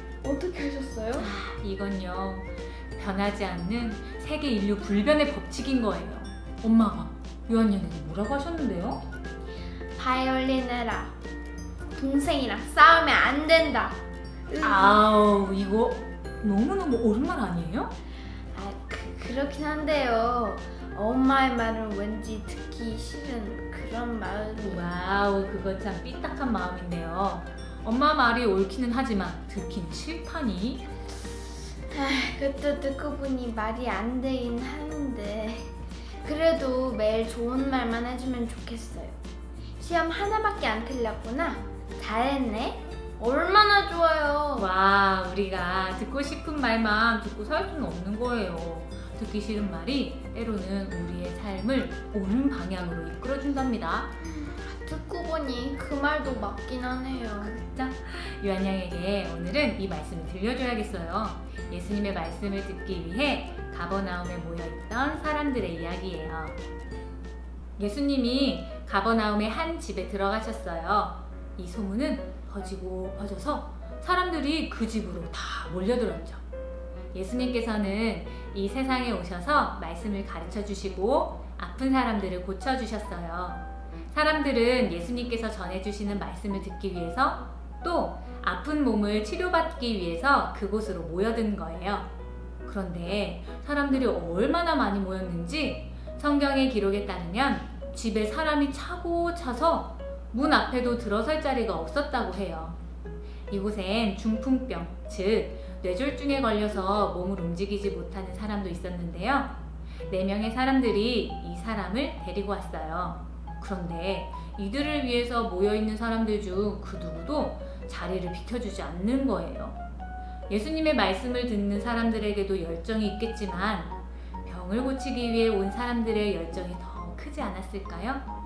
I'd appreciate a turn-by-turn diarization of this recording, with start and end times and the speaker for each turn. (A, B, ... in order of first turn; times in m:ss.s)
0:00.2-0:01.3 A
0:01.2-0:09.0 B
0:10.0-0:11.1 A
0:11.9-0:14.0 A
0:14.5-0:15.0 A
0:14.6-0:17.9 B
0:18.5-0:24.8 A
0:24.6-0:30.8 B
0:31.9-0:35.7 A
0:36.2-0:39.2 A
0:39.8-0:44.7 A
0:44.6-0:54.1 B
0:54.2-0:57.5 A
0:57.4-1:06.6 B
1:07.8-1:16.4 B
1:17.1-1:32.1 B
1:32.6-1:42.8 B
1:43.5-1:49.6 B
1:50.1-1:59.8 B
2:00.5-2:08.2 B